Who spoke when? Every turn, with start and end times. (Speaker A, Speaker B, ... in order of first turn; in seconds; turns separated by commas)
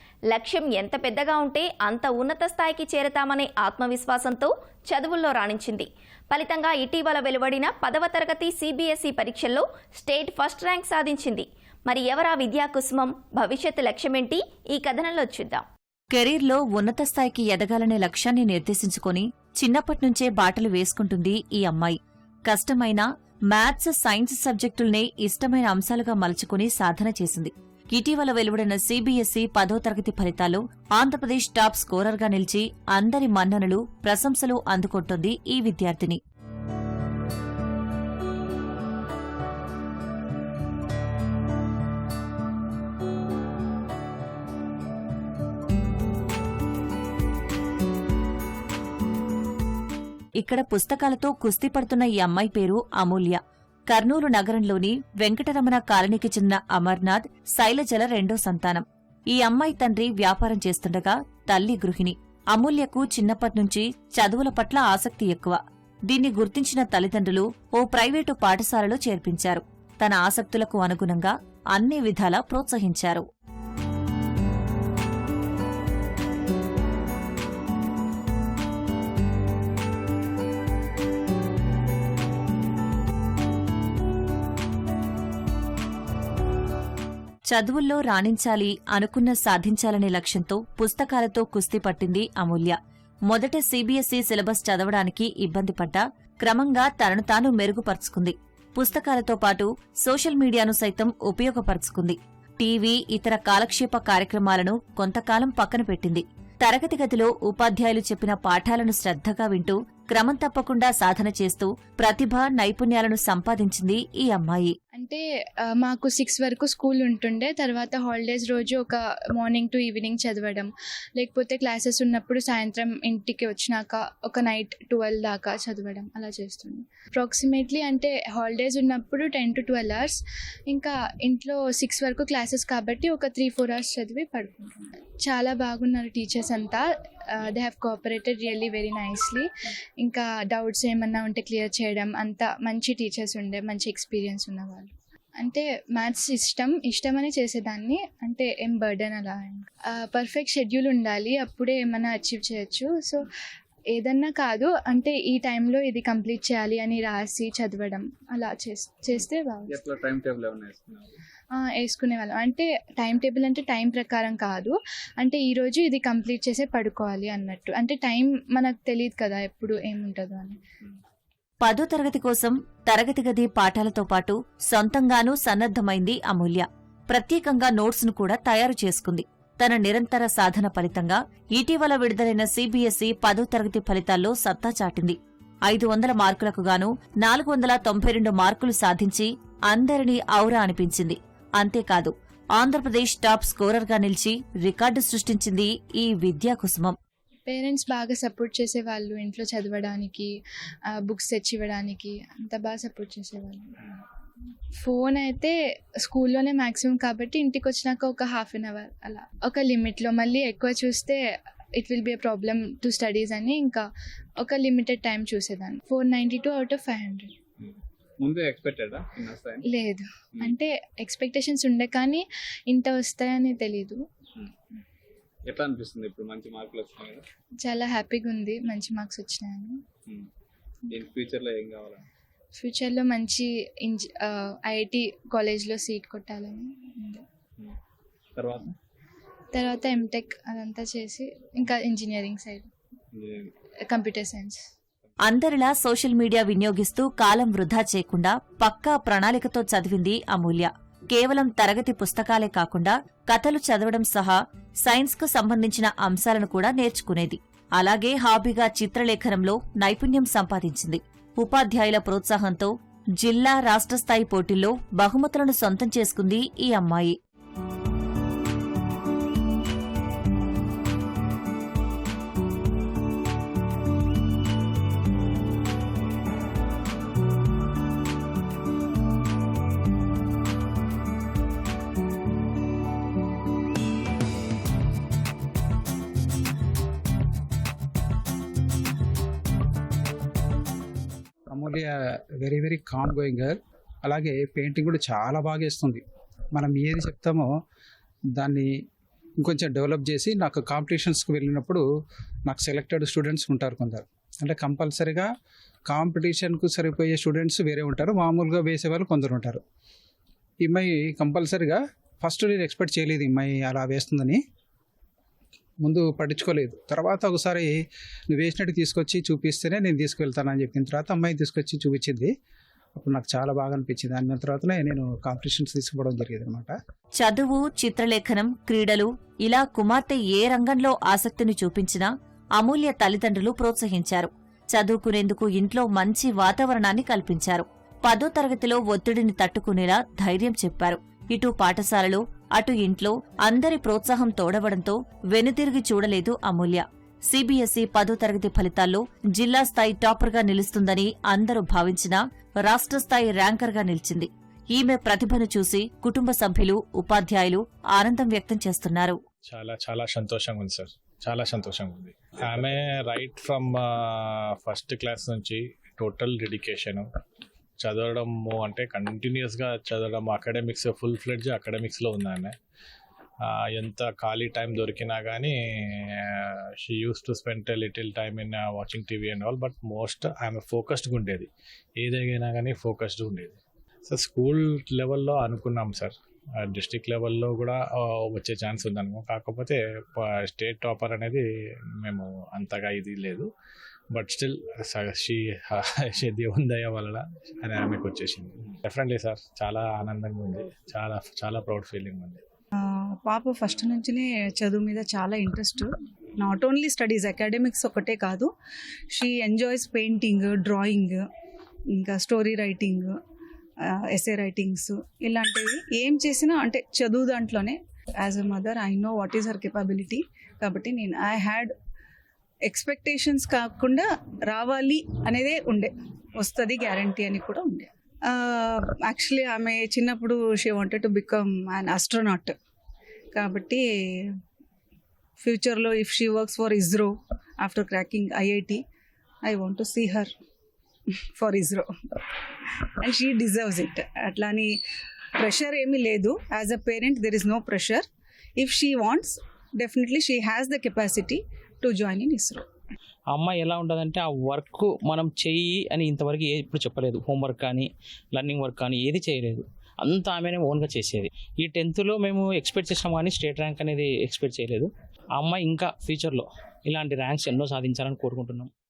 Speaker A: 0.3-15.6, Speaker B: 16.1-22.0, Speaker B: 22.5-36.2, Speaker B: 50.4-53.4, Speaker B: 53.9-73.2, Speaker B: 87.5-92.8, Speaker B: 93.3-114.8, Speaker C: 114.9-115.2, Speaker C: 115.7-139.5, Speaker C: 140.0-153.3, Speaker C: 153.9-159.8, Speaker D: 159.7-161.1, Speaker C: 161.6-170.6, Speaker B: 171.6-196.9, Speaker C: 197.5-200.3, Speaker C: 200.9-203.7, Speaker C: 204.8-205.5, Speaker C: 206.0-211.2, Speaker C: 211.8-213.8, Speaker C: 214.4-217.3, Speaker D: 218.2-219.6, Speaker C: 219.7-224.0, Speaker D: 225.4-227.3, Speaker C: 227.6-229.8, Speaker D: 230.9-232.1, Speaker C: 232.6-237.2, Speaker D: 238.3-238.8, Speaker C: 239.5-242.7, Speaker D: 243.1-243.5, Speaker C: 243.9-244.6, Speaker B: 245.3-267.1, Speaker E: 291.5-296.0, Speaker E: 296.6-297.5, Speaker E: 298.4-298.7, Speaker E: 299.4-301.9, Speaker E: 302.5-305.3, Speaker E: 305.9-309.6, Speaker E: 310.6-314.4, Speaker E: 315.8-317.8, Speaker E: 318.3-322.3, Speaker E: 323.0-326.8, Speaker B: 327.2-359.2, Speaker F: 359.5-367.1, Speaker F: 367.8-372.6, Speaker F: 373.4-383.6, Speaker F: 384.1-391.4, Speaker F: 392.0-393.5, Speaker F: 394.1-402.4, Speaker G: 402.8-408.5, Speaker G: 409.1-411.2, Speaker G: 411.9-413.2, Speaker G: 413.9-421.7, Speaker G: 422.7-432.5, Speaker G: 433.3-434.3, Speaker G: 435.4-438.8, Speaker G: 439.4-440.3, Speaker G: 441.4-441.9, Speaker G: 443.0-444.7, Speaker G: 445.4-448.1, Speaker G: 448.6-452.7, Speaker H: 453.3-468.7